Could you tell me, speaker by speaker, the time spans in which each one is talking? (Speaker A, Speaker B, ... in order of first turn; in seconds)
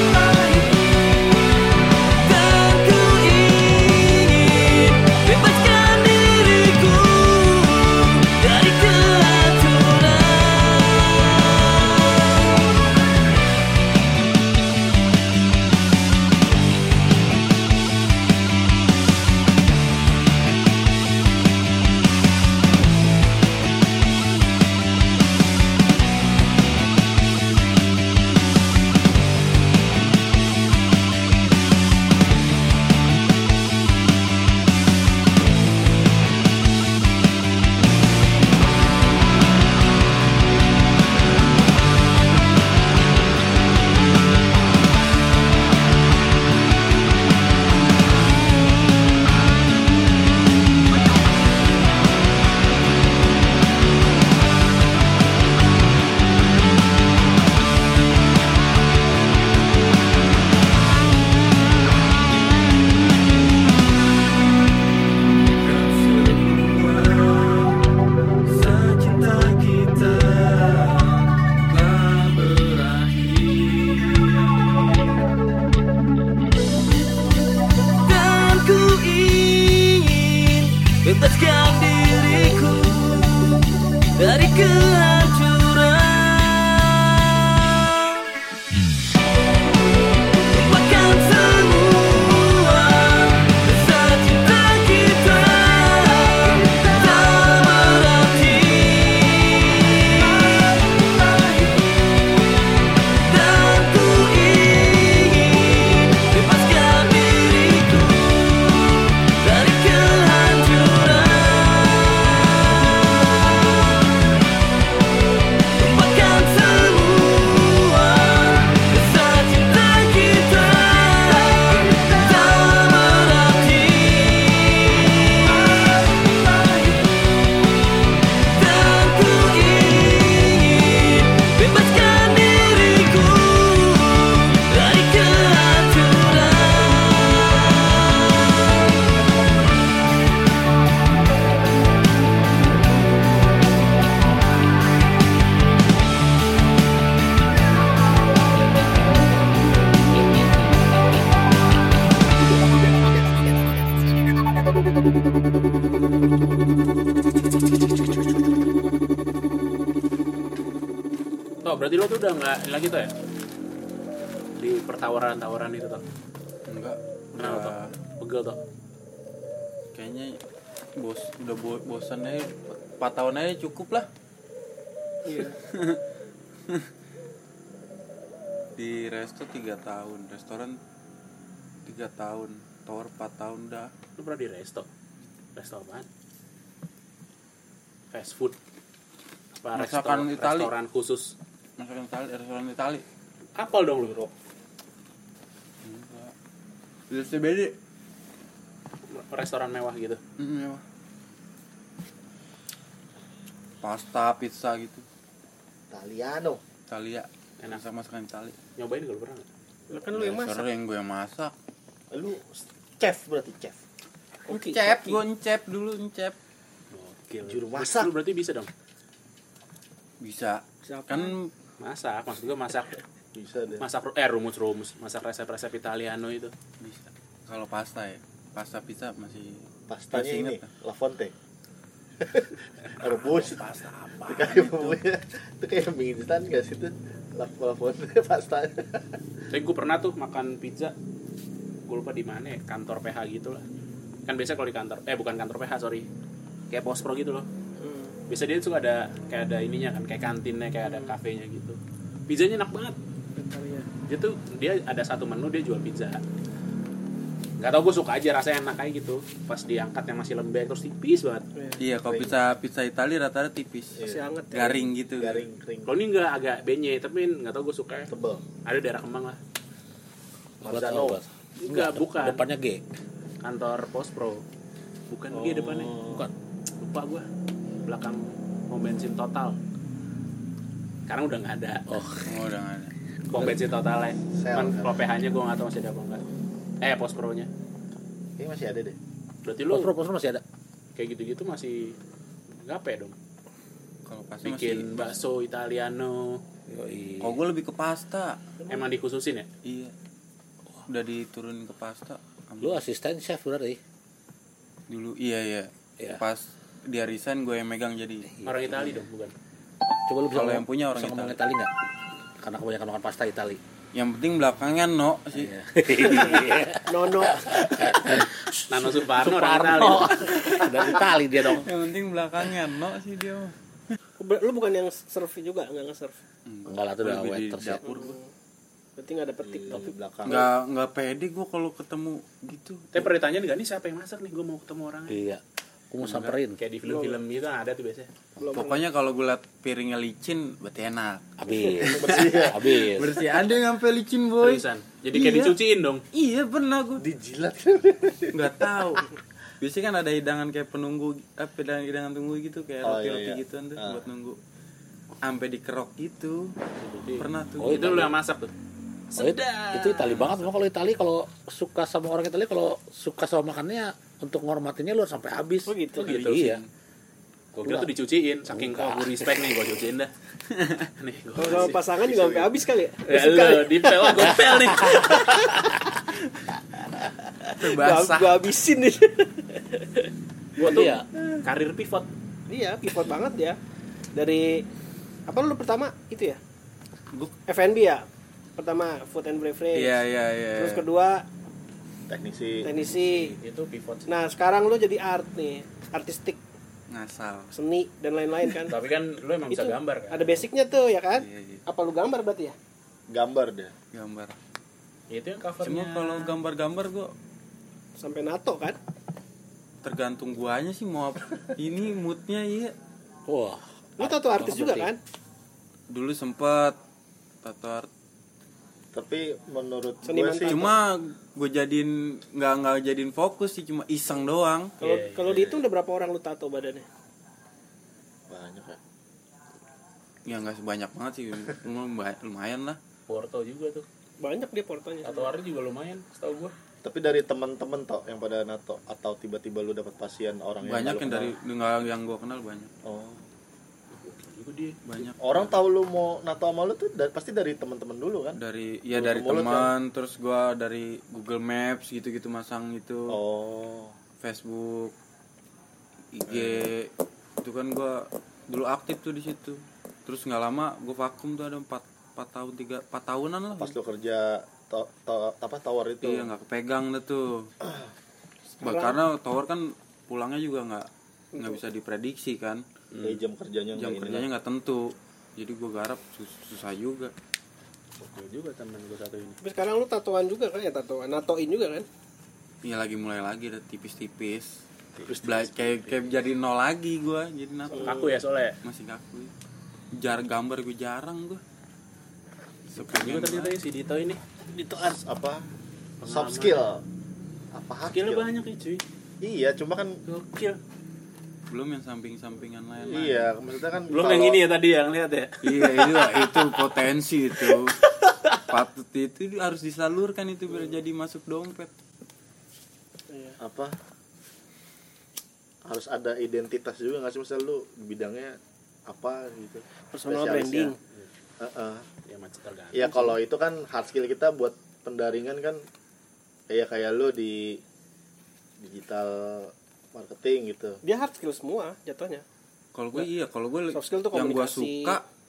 Speaker A: 2.2-11.3, 78.1-83.5, 84.2-86.8, 90.7-96.7, 97.2-99.4, 103.3-108.7, 109.4-112.3, 116.0-121.7, 122.3-124.9, 128.6-136.8
Speaker B: 65.5-75.3, 166.7-167.9, 169.9-170.4, 171.0-174.1, 175.4-176.0, 178.8-180.8, 181.8-183.9, 189.7-190.7, 191.8-193.0, 195.8-196.3, 197.1-197.8, 200.4-200.8, 203.8-205.0, 206.9-208.6, 210.1-211.5, 214.5-216.4, 220.2-221.5, 226.8-230.7, 261.8-264.0, 264.5-265.5, 282.2-282.9, 294.1-295.2, 297.2-298.4, 299.6-299.9, 300.9-302.8, 304.9-308.3, 310.3-311.4, 313.9-315.5, 316.0-316.4, 321.6-323.5, 326.4-328.1, 330.2-333.1, 338.5-345.6, 346.1-347.0, 348.3-349.1, 349.6-354.4, 355.2-356.5, 357.2-357.9, 366.2-366.7, 370.5-370.9, 377.6-378.4, 389.7-390.9, 396.9-397.5, 401.1-401.6, 403.9-404.4, 405.6-407.1, 409.8-412.7, 415.9-416.8, 417.4-417.9, 420.5-424.8, 430.2-432.8, 440.6-442.7, 444.8-445.6, 448.4-453.2, 454.2-454.9, 456.1-463.8, 466.0-467.5, 468.6-472.6, 473.7-477.1, 482.6-484.6, 485.2-488.1, 488.6-489.3, 489.9-491.4, 492.7-493.6, 501.5-503.3, 505.4-507.8, 508.5-511.7, 532.7-535.0
Speaker C: 161.6-163.1, 164.6-166.0, 167.4-168.6, 184.2-184.9, 185.6-186.1, 188.1-188.6, 189.6-191.3, 193.6-194.2, 199.1-200.2, 208.8-209.5, 216.9-218.7, 221.8-223.0, 223.8-226.5, 233.1-235.0, 239.5-240.9, 241.9-243.6, 244.3-246.1, 246.7-247.5, 248.3-253.0, 254.0-256.2, 257.6-261.4, 265.9-268.1, 268.6-269.4, 270.6-272.4, 273.4-274.4, 275.1-276.1, 276.8-277.2, 277.9-279.6, 281.1-281.8, 283.3-286.2, 286.8-287.5, 289.4-289.9, 290.9-292.0, 292.6-293.1, 294.4-296.4, 298.7-299.5, 308.4-309.3, 318.7-320.3, 332.9-335.1, 336.0-338.1, 344.4-346.0, 356.8-358.5, 359.1-360.4, 366.0-366.6, 367.5-370.1, 371.0-371.9, 373.0-375.5, 380.6-382.1, 392.9-394.1, 398.7-400.5, 405.1-406.3, 424.8-425.3, 433.1-433.8, 435.0-436.5, 443.9-444.8, 472.9-473.2, 478.0-479.4, 487.8-488.6, 492.8-494.2, 496.0-496.7, 497.9-498.8, 500.1-500.6, 503.9-506.0, 522.1-523.2
Speaker D: 175.2-175.6, 209.9-210.6, 214.5-215.2, 220.8-221.3, 247.8-248.1, 250.8-251.1, 253.3-253.9, 261.5-261.8, 264.0-264.9, 316.1-316.4, 316.9-317.9, 324.2-326.2, 327.8-328.3, 329.0-329.9, 336.8-337.2, 338.4-338.8, 341.6-341.9, 365.7-366.2, 371.4-375.6, 377.5-380.1, 382.5-383.6, 384.1-384.6, 385.3-386.4, 387.5-388.1, 388.6-390.0, 390.5-391.2, 392.6-393.3, 394.1-396.4, 397.5-398.8, 399.5-402.5, 408.0-408.8, 414.0-415.0, 420.0-420.7, 424.8-426.9, 434.2-435.3, 468.6-469.0, 479.4-481.9, 487.7-488.0, 513.1-513.4, 519.9-520.8, 530.8-532.2, 533.7-535.0
Speaker E: 194.0-194.3, 205.9-206.6, 212.1-213.8, 217.4-218.1, 223.3-223.8, 229.9-231.3, 232.2-233.6, 234.3-239.2, 262.1-262.4, 264.0-264.2, 265.1-266.0, 268.1-268.4, 270.6-271.1, 275.3-276.2, 284.3-284.9, 288.4-288.9, 329.4-330.5, 341.9-342.7, 347.0-349.0, 352.8-354.0, 372.1-372.5, 392.1-392.7, 403.1-403.7, 418.9-420.7, 425.3-425.6, 428.3-428.8, 436.8-441.3, 442.8-443.2, 445.2-448.4, 448.9-449.7, 453.1-453.9, 456.3-456.7, 463.5-466.3, 467.6-467.9, 473.0-474.3, 485.0-486.0, 494.5-495.4, 496.1-496.8, 497.5-498.3, 499.2-500.0, 502.9-504.4, 513.4-513.8, 515.6-520.7, 521.4-521.8, 522.7-525.6, 526.5-527.6, 528.6-530.8
Speaker F: 270.6-272.8, 281.9-282.3, 289.7-290.4, 296.7-297.4, 302.6-303.8, 308.3-309.0, 310.1-311.7, 312.4-313.6, 315.3-321.7, 326.7-327.8, 335.1-336.6, 341.4-343.2, 357.6-358.1, 359.1-366.6, 367.6-367.9, 368.5-369.5, 380.6-381.1, 413.3-414.9